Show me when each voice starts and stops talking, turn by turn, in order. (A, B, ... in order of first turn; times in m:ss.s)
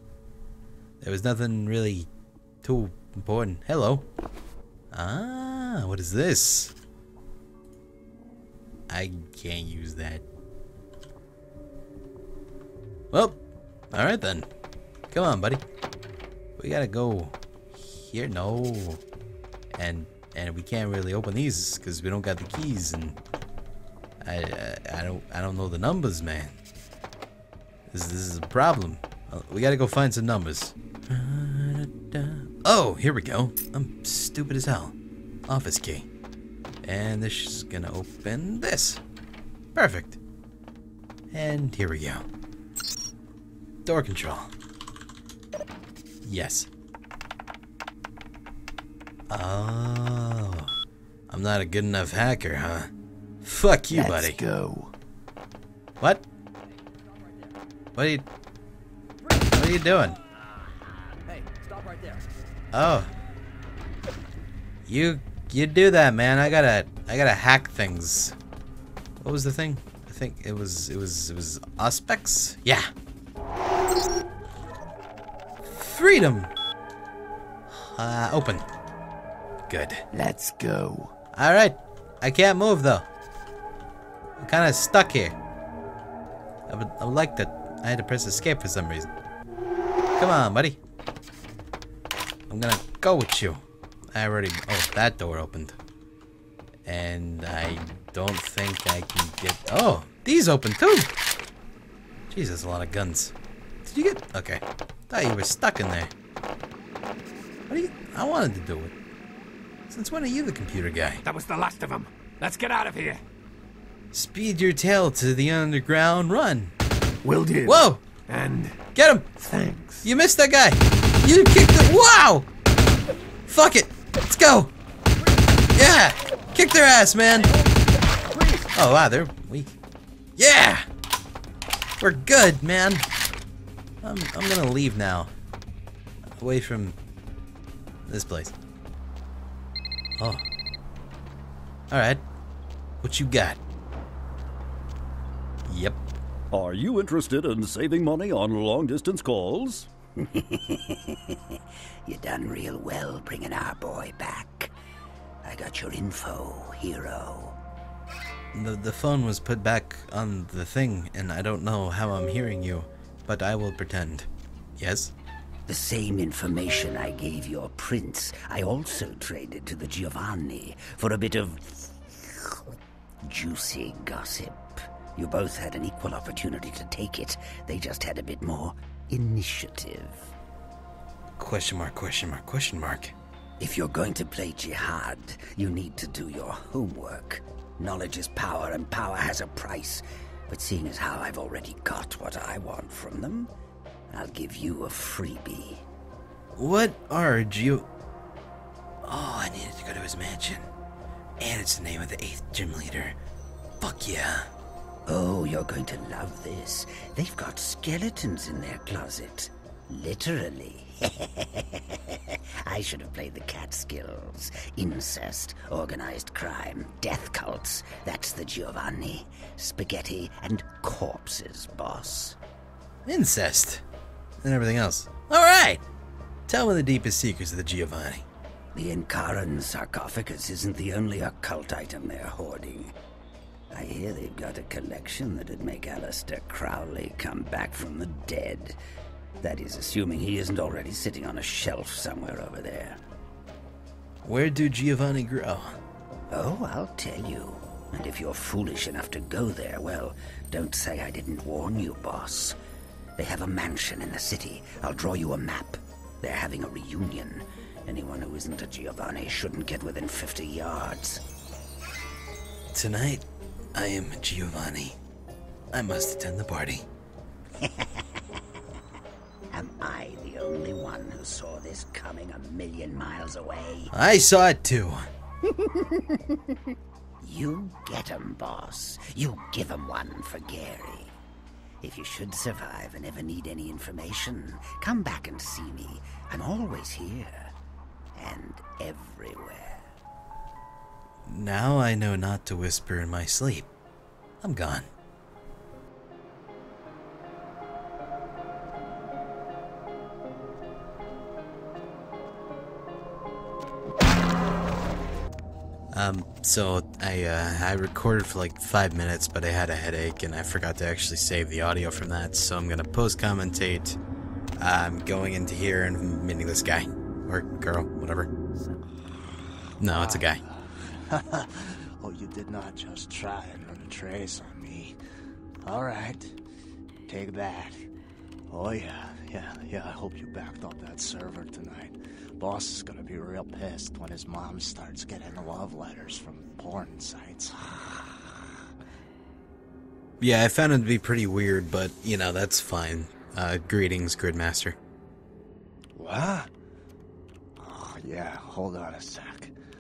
0:01.0-0:02.1 A
0:02.6-0:04.1 A
0:04.9-0:06.7 A
0:08.9-0:10.2 A
0:13.1-0:13.4 A
0:13.9-0:14.5 A
0:15.1-0:15.6 A
0:16.6-0:19.0 A
0:19.8-0:23.2 A
0:24.2-0:26.6 A
0:27.9-0:35.0 A
0:35.5-0:36.1 A
0:36.8-0:39.0 A
0:39.8-0:40.2 A
0:41.3-0:42.2 A
0:43.8-0:44.5 A
0:46.2-0:46.7 A
0:49.3-0:50.7 A
0:51.3-0:52.9 A
0:53.4-0:54.4 A
0:56.0-0:56.2 A
0:58.0-0:58.3 A
0:59.4-1:00.2 A
1:02.7-1:03.1 A
1:04.9-1:08.4 A
1:09.2-1:12.9 A
1:15.7-1:16.5 A
1:17.7-1:18.7 A
1:19.7-1:20.0 A
1:20.1-1:21.1 B
1:21.3-1:23.1 A
1:24.4-1:25.4 A
1:26.7-1:29.1 A
1:30.2-1:30.8 A
1:32.5-1:35.8 A
1:36.8-1:41.1 A
1:42.3-1:46.1 A
1:47.7-1:48.9 A
1:49.9-1:51.2 A
1:51.2-1:53.2 B
1:54.1-1:56.7 A
1:57.2-2:00.1 B
1:57.6-1:58.0 A
1:59.0-1:59.3 A
2:00.0-2:02.5 A
2:03.5-2:04.7 A
2:05.8-2:07.5 A
2:08.3-2:08.6 B
2:08.7-2:09.7 A
2:10.4-2:10.9 A
2:12.0-2:13.1 A
2:14.0-2:15.3 A
2:16.4-2:17.0 A
2:18.1-2:18.5 A
2:20.2-2:20.5 A
2:21.9-2:22.2 A
2:23.0-2:23.6 A
2:25.7-2:26.0 A
2:26.5-2:29.9 C
2:30.2-2:34.7 D
2:35.4-2:37.6 D
2:38.5-2:45.1 A
2:45.7-2:52.6 D
2:53.2-3:00.3 D
3:01.4-3:03.1 A
3:03.6-3:13.5 D
3:14.1-3:15.8 D
3:16.6-3:17.9 A
3:19.0-3:20.7 A
3:21.4-3:23.2 A
3:23.8-3:24.5 A
3:25.1-3:42.4 D
3:43.1-3:43.8 A
3:44.4-3:45.8 A
3:46.5-3:48.2 A
3:48.8-3:52.9 D
3:53.7-3:58.8 D
3:59.4-4:03.0 D
4:04.2-4:05.8 A
4:06.3-4:12.6 D
4:13.2-4:21.2 D
4:22.7-4:25.0 A
4:25.7-4:26.9 A
4:27.6-4:28.4 D
4:29.5-4:33.9 D
4:33.9-4:35.0 A
4:35.5-4:36.6 D
4:37.2-4:41.1 D
4:41.8-4:47.5 D
4:48.2-4:49.9 D
4:51.3-4:53.7 A
4:54.4-4:54.9 A
5:05.9-5:14.0 A
5:14.6-5:18.3 A
5:19.8-5:20.4 A
5:19.9-5:25.0 E
5:25.6-5:26.4 E
5:27.1-5:27.8 E
5:28.5-5:38.3 E
5:40.2-5:44.8 A
5:46.0-5:46.5 E
5:47.6-5:49.5 E